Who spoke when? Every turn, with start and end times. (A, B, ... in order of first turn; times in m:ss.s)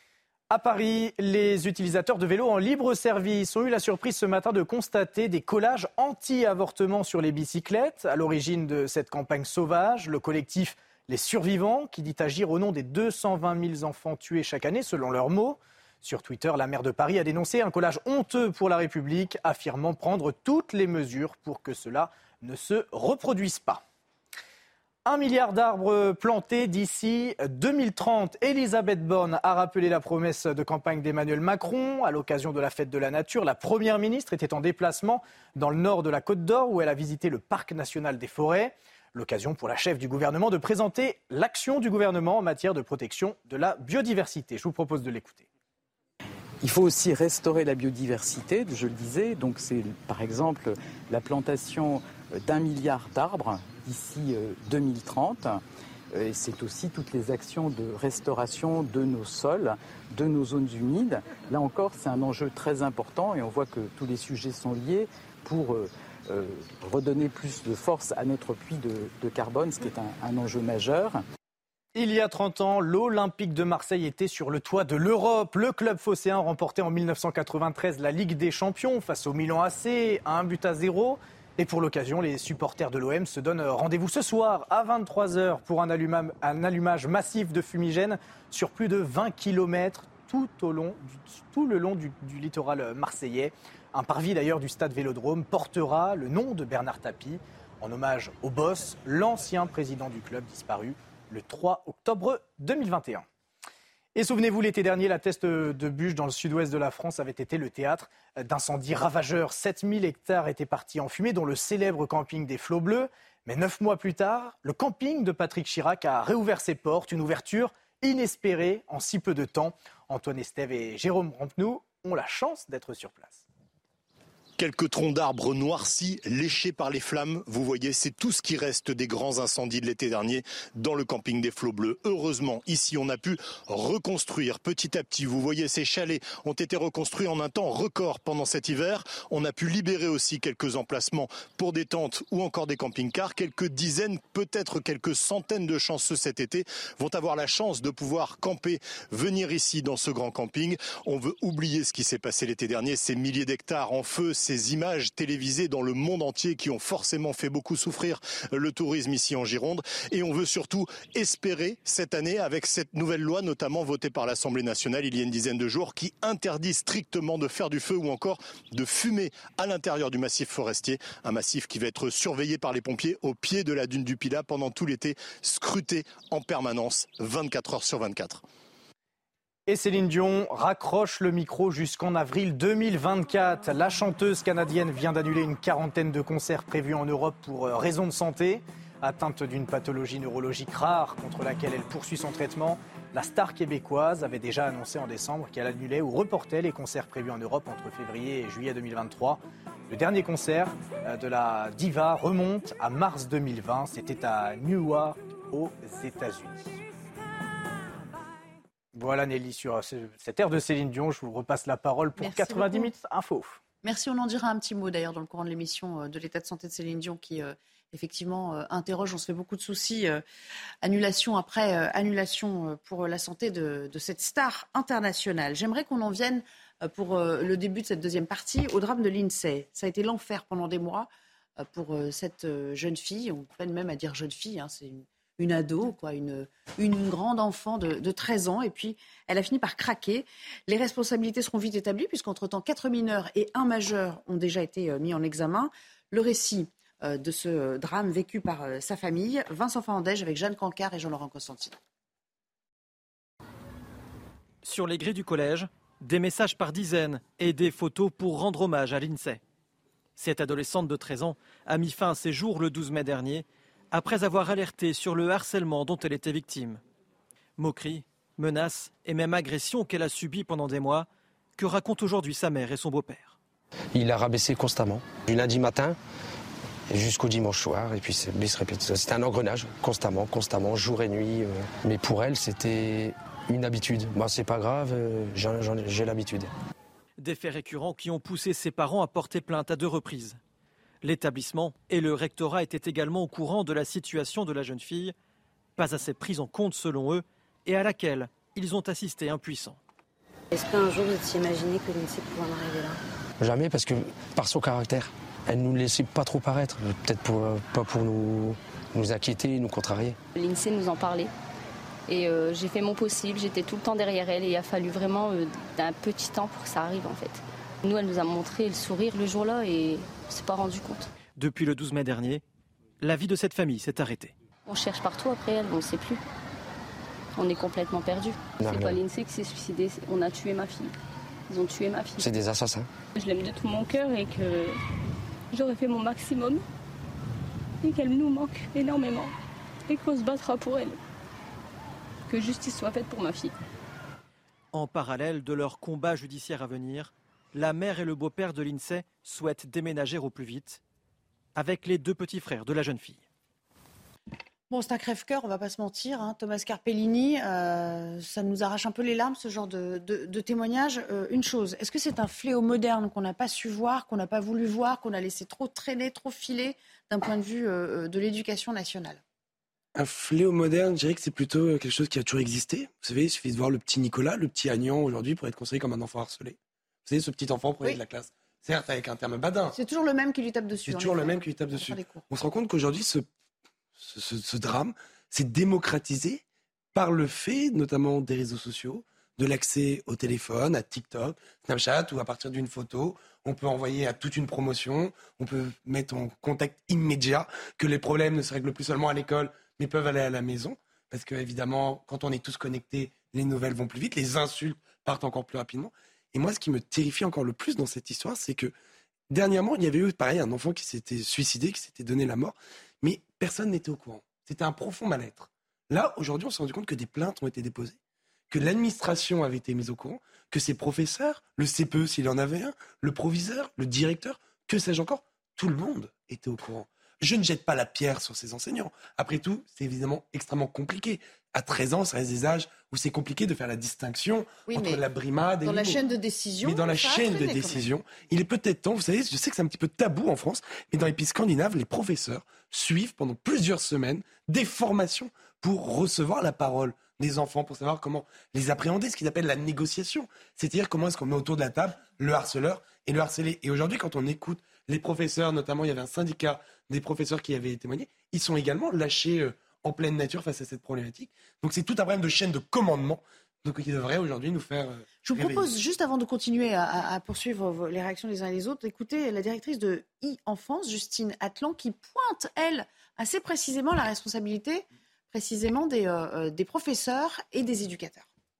0:00.5-0:23.8 A
0:25.1-0:45.5 A
0:46.6-0:55.6 B
0:56.1-1:11.2 B
1:12.0-1:43.3 A
1:44.2-2:03.4 A
2:04.6-2:58.4 C
2:59.7-3:26.8 A
3:29.0-3:33.6 A
3:32.2-3:32.9 D
3:33.8-3:40.2 D
3:40.8-3:51.1 D
3:51.6-4:11.8 D
4:14.6-4:19.4 E
4:20.2-4:26.8 E
4:27.6-4:33.4 E
4:34.0-4:36.0 F
4:36.9-4:46.5 F
4:47.2-4:50.4 E
4:51.0-4:55.1 E
4:55.8-4:59.8 E
5:00.5-5:03.0 G
5:03.4-5:10.2 F
5:10.4-5:11.3 H
5:12.1-5:21.1 H
5:21.4-5:22.4 E
5:23.0-5:24.3 E
5:24.7-5:26.2 H
5:27.4-5:30.9 H
5:28.6-5:29.0 F
5:31.5-5:32.3 H
5:32.2-5:32.9 F
5:33.2-5:34.8 H
5:35.5-5:36.6 H
5:37.8-5:39.3 H
5:39.9-5:41.0 H
5:42.3-5:43.6 H
5:44.7-5:50.8 E
5:51.6-5:53.2 E
5:54.7-6:09.2 D
6:10.0-6:19.8 I
6:19.7-6:22.2 D
6:20.9-6:23.3 I
6:24.0-6:26.4 I
6:26.9-6:48.7 I
6:49.3-6:58.0 I
6:58.5-7:16.0 I
7:14.7-7:15.0 D
7:15.6-7:17.8 D
7:16.6-7:45.7 I
7:45.2-7:58.3 D